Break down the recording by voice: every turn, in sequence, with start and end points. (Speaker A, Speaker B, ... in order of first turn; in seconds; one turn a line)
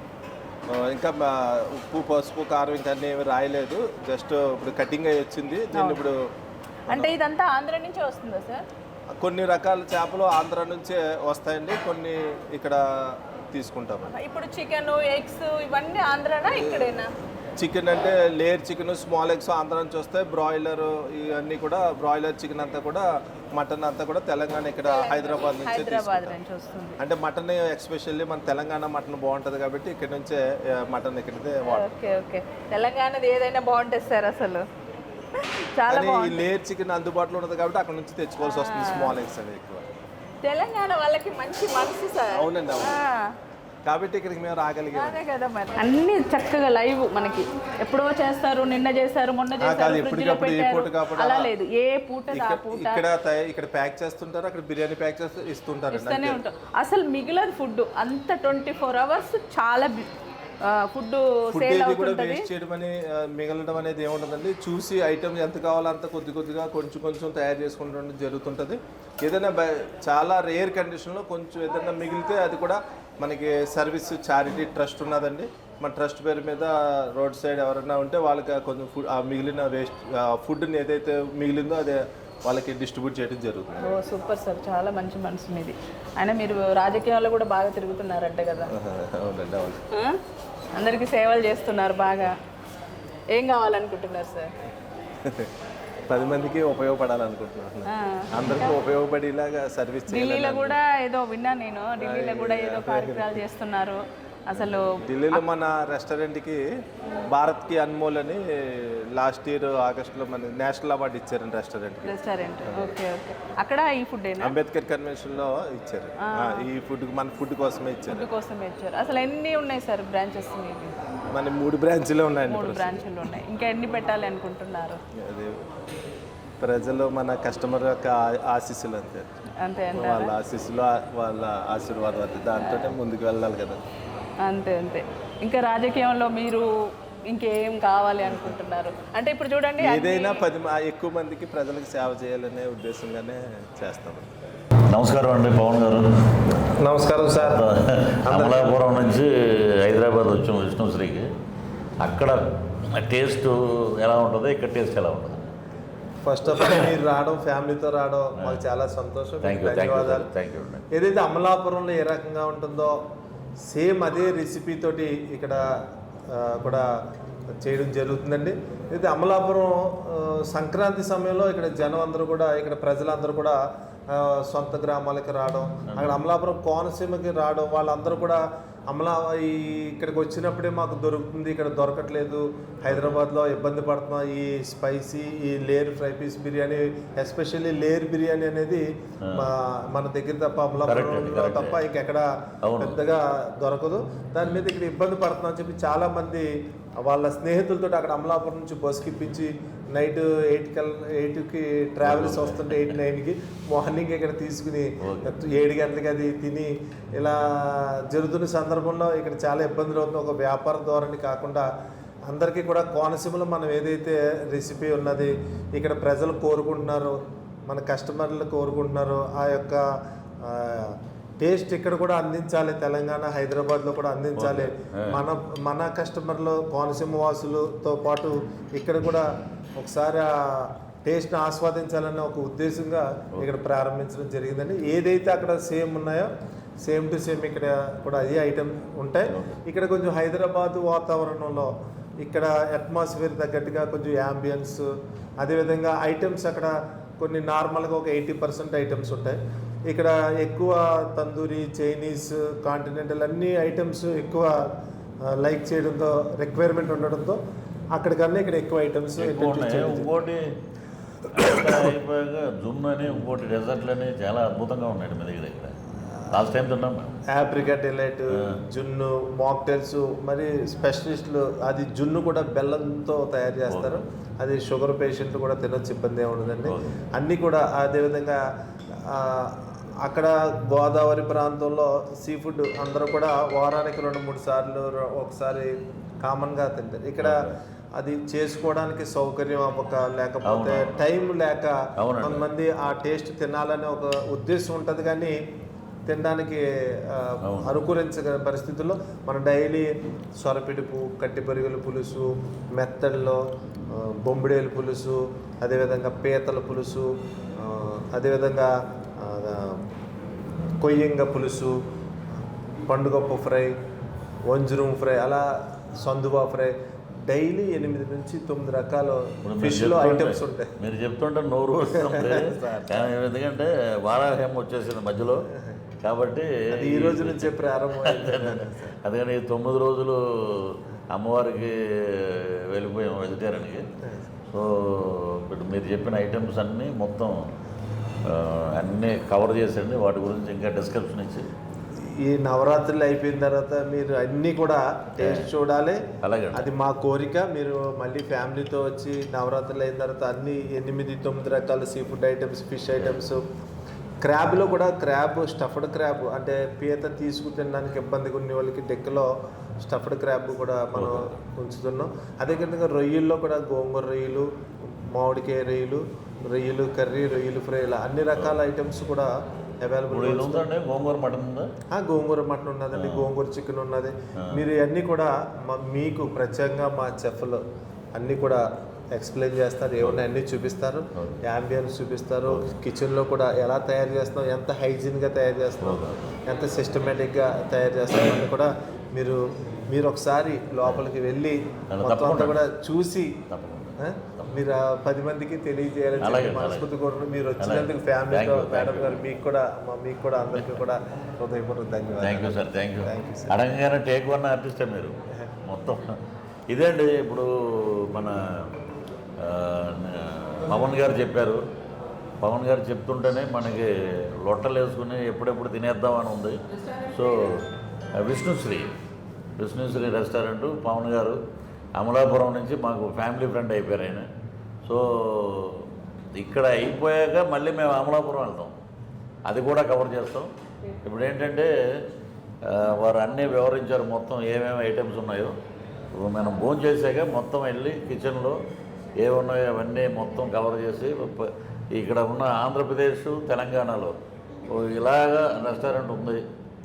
Speaker A: 0.7-6.2
Speaker B: 5.7-6.0
Speaker B: 6.9-8.7
Speaker A: 9.2-14.1
Speaker B: 14.1-17.1
Speaker A: 16.5-16.9
Speaker A: 17.6-26.4
Speaker B: 24.8-27.0
Speaker A: 27.0-31.9
Speaker B: 31.7-34.6
Speaker B: 35.3-36.4
Speaker A: 35.9-39.9
Speaker B: 38.4-39.1
Speaker B: 40.4-43.3
Speaker A: 42.3-43.0
Speaker A: 43.8-45.2
Speaker B: 44.9-53.0
Speaker A: 49.6-51.5
Speaker A: 52.3-56.4
Speaker B: 55.9-60.1
Speaker B: 60.6-62.4
Speaker A: 61.5-83.9
Speaker B: 83.8-88.7
Speaker A: 88.7-89.8
Speaker B: 89.9-90.2
Speaker B: 90.8-92.3
Speaker B: 93.3-94.5
Speaker A: 96.1-100.8
Speaker B: 97.9-98.7
Speaker B: 100.1-105.4
Speaker A: 102.0-103.4
Speaker A: 104.5-106.6
Speaker A: 107.3-112.1
Speaker B: 112.0-114.5
Speaker A: 114.4-118.3
Speaker B: 116.2-116.6
Speaker B: 118.1-120.9
Speaker A: 121.3-123.1
Speaker B: 122.5-125.0
Speaker A: 125.2-125.5
Speaker A: 126.6-129.3
Speaker B: 129.6-130.3
Speaker A: 129.9-133.8
Speaker B: 132.6-132.9
Speaker B: 134.4-140.4
Speaker A: 139.8-144.3
Speaker C: 144.9-146.1
Speaker A: 146.8-147.7
Speaker C: 147.4-151.3
Speaker A: 148.2-148.8
Speaker C: 152.0-152.4
Speaker C: 152.9-155.4
Speaker A: 156.2-160.3
Speaker C: 156.5-156.8
Speaker C: 158.4-158.6
Speaker C: 159.4-160.8
Speaker A: 160.9-162.9
Speaker A: 163.7-165.7
Speaker A: 166.3-166.8
Speaker A: 167.6-173.6
Speaker A: 174.1-192.2
Speaker C: 175.9-176.2
Speaker C: 182.9-183.2
Speaker C: 190.9-191.8
Speaker C: 192.7-193.0
Speaker A: 192.8-196.5
Speaker A: 197.0-211.6
Speaker C: 202.0-203.0
Speaker C: 205.0-205.3
Speaker A: 212.3-217.1
Speaker A: 217.7-219.8
Speaker A: 220.4-229.2
Speaker C: 224.3-225.2
Speaker A: 229.8-236.3
Speaker A: 236.8-244.8
Speaker C: 239.3-239.6
Speaker A: 245.4-254.7
Speaker A: 255.3-257.4
Speaker A: 257.9-260.3
Speaker C: 259.2-260.4
Speaker C: 261.3-265.7
Speaker A: 261.4-261.7
Speaker C: 266.3-267.2
Speaker A: 267.3-278.4
Speaker C: 273.7-274.0
Speaker A: 279.1-287.3
Speaker C: 287.2-287.5
Speaker A: 288.0-295.3
Speaker C: 290.4-290.9
Speaker C: 292.0-292.4
Speaker A: 296.1-299.9
Speaker C: 297.4-297.8
Speaker A: 300.4-307.1
Speaker A: 307.6-308.7
Speaker A: 309.2-309.7
Speaker A: 310.8-311.8
Speaker A: 312.9-313.7
Speaker A: 314.5-315.4
Speaker A: 316.0-316.7
Speaker A: 317.3-320.7
Speaker C: 319.4-325.4
Speaker A: 321.9-323.1
Speaker C: 326.0-333.8
Speaker A: 326.7-328.9
Speaker C: 334.5-337.3
Speaker C: 338.3-341.5
Speaker A: 342.2-346.0
Speaker C: 345.2-345.5
Speaker C: 346.2-346.7
Speaker A: 346.5-353.4
Speaker C: 352.9-353.2
Speaker A: 354.2-359.3
Speaker A: 359.8-364.5
Speaker C: 360.9-361.3
Speaker A: 365.1-369.3
Speaker A: 369.8-370.6
Speaker C: 370.1-371.7
Speaker A: 371.9-377.6
Speaker C: 372.9-373.3
Speaker A: 378.1-389.4
Speaker C: 380.0-380.3
Speaker C: 385.8-386.2
Speaker A: 389.9-393.3
Speaker C: 391.9-392.6
Speaker C: 393.5-394.5
Speaker A: 394.0-403.6
Speaker C: 396.2-396.9
Speaker C: 397.6-399.2
Speaker C: 400.5-400.8
Speaker C: 402.2-405.1
Speaker C: 405.6-406.1
Speaker C: 406.7-408.7
Speaker C: 409.4-411.6
Speaker C: 412.4-413.9
Speaker C: 414.4-417.6
Speaker C: 418.2-418.9
Speaker C: 419.6-421.4
Speaker C: 422.0-424.3
Speaker C: 424.8-428.7
Speaker C: 429.4-430.5
Speaker C: 431.0-431.7
Speaker C: 432.6-435.5
Speaker C: 436.1-438.6
Speaker C: 439.2-444.1
Speaker C: 444.7-446.4